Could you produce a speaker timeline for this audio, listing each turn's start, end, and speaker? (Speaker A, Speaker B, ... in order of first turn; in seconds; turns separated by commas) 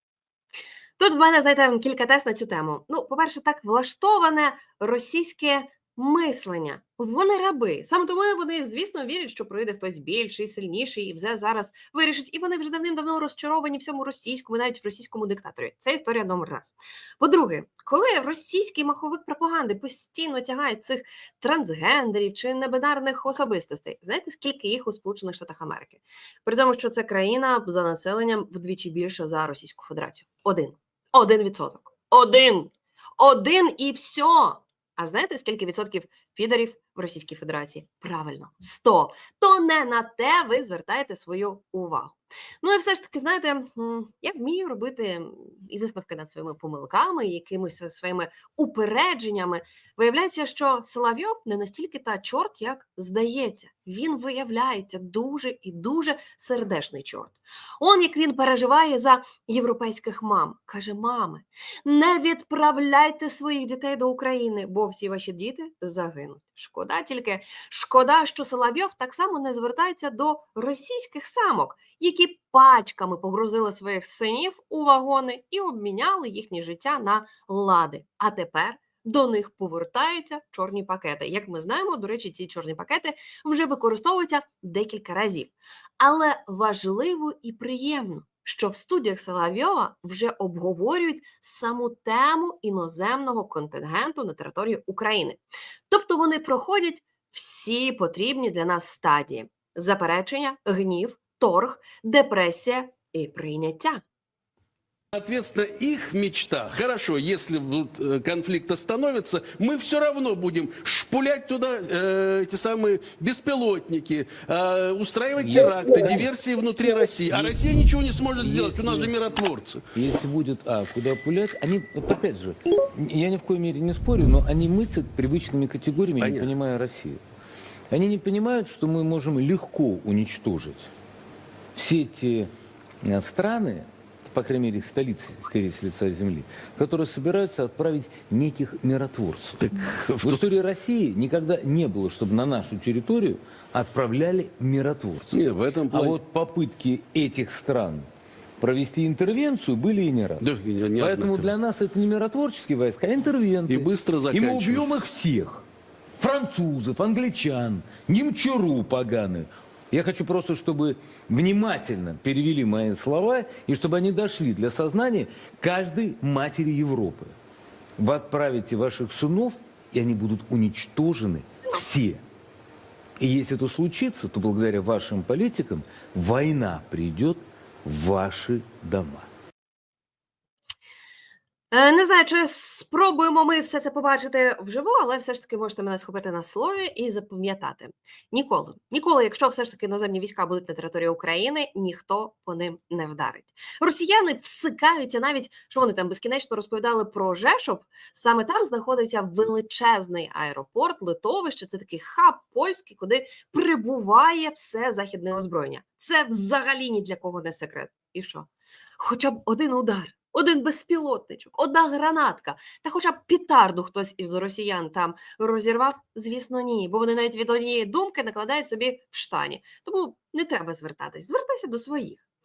Speaker A: 1.0-104.0, Speaker B: 105.1-119.8, Speaker C: 115.4-116.3, Speaker C: 117.3-117.6, Speaker C: 118.4-119.2, Speaker C: 119.9-127.2, Speaker B: 126.2-126.5, Speaker C: 127.9-130.9, Speaker C: 131.8-148.1, Speaker B: 139.6-140.4, Speaker B: 145.3-146.2, Speaker C: 148.6-150.5, Speaker B: 150.4-151.5, Speaker C: 151.0-155.6, Speaker B: 153.7-155.0, Speaker C: 156.2-167.3, Speaker C: 168.0-172.2, Speaker C: 173.2-179.3, Speaker A: 181.7-222.2